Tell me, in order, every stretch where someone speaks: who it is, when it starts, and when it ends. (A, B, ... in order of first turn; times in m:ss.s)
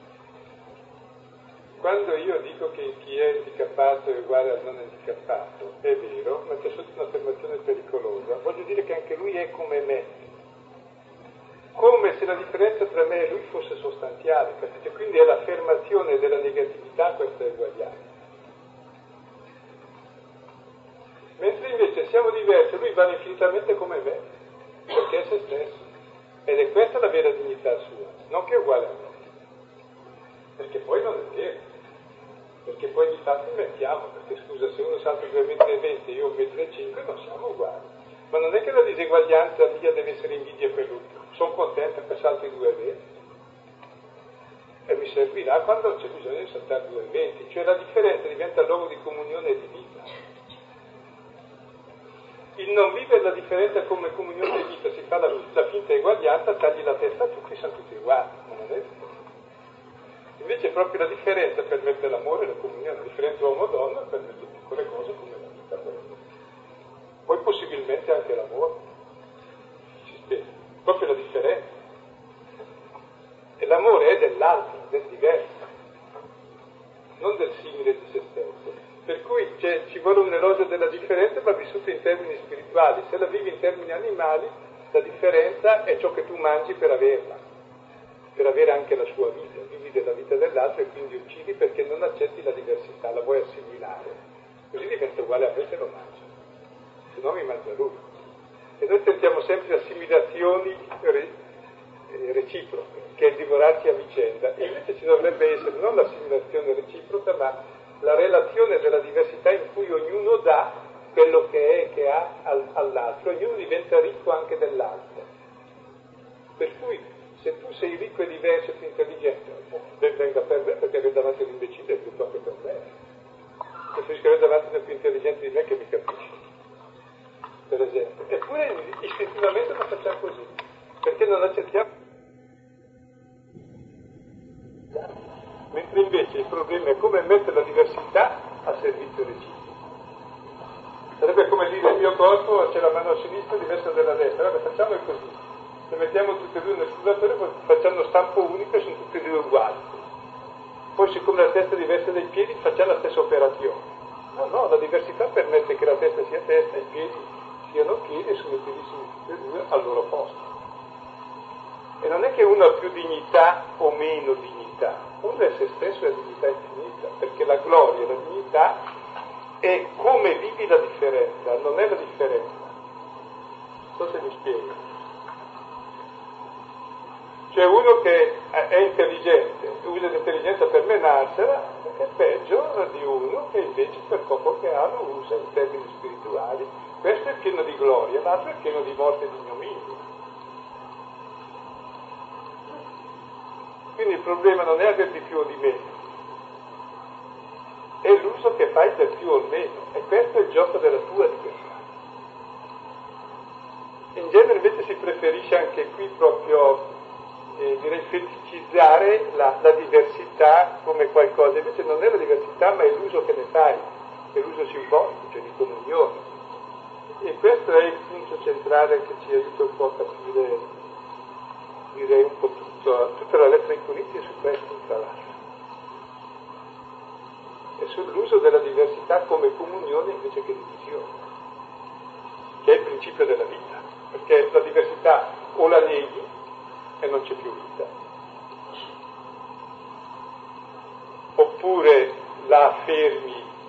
0:01.8-0:10.3 A
0:11.8-0:18.0 A
0:21.4-0:24.2 A
0:24.9-0:25.8 A
0:26.5-0:29.2 A
0:30.6-0:31.6 A
0:32.7-0:43.0 A
0:44.9-0:50.1 A
0:52.6-0:59.0 A
1:00.4-1:06.2 A
1:07.3-1:08.8 A
1:10.0-1:11.6 A
1:13.6-1:15.6 A
1:17.2-1:27.4 A
1:28.4-1:34.2 A
1:34.7-1:36.3 A
1:37.1-1:38.1 A
1:38.8-1:41.3 A
1:42.1-1:55.3 A
1:56.6-2:02.9 A
2:03.9-2:06.4 A
2:07.7-2:11.9 A
2:15.7-2:19.8 A
2:21.2-2:30.0 A
2:31.0-2:40.5 A
2:42.0-2:48.8 A
2:49.6-2:52.7 A
2:54.0-2:54.8 A
2:57.5-3:10.0 A
3:14.0-3:15.9 A
3:18.0-3:21.8 A
3:24.2-3:26.9 A
3:27.6-3:36.2 A
3:37.2-3:40.7 A
3:41.9-3:45.4 A
3:47.8-3:51.1 A
3:52.6-3:56.3 A
3:57.0-3:57.9 A
4:01.4-4:03.5 A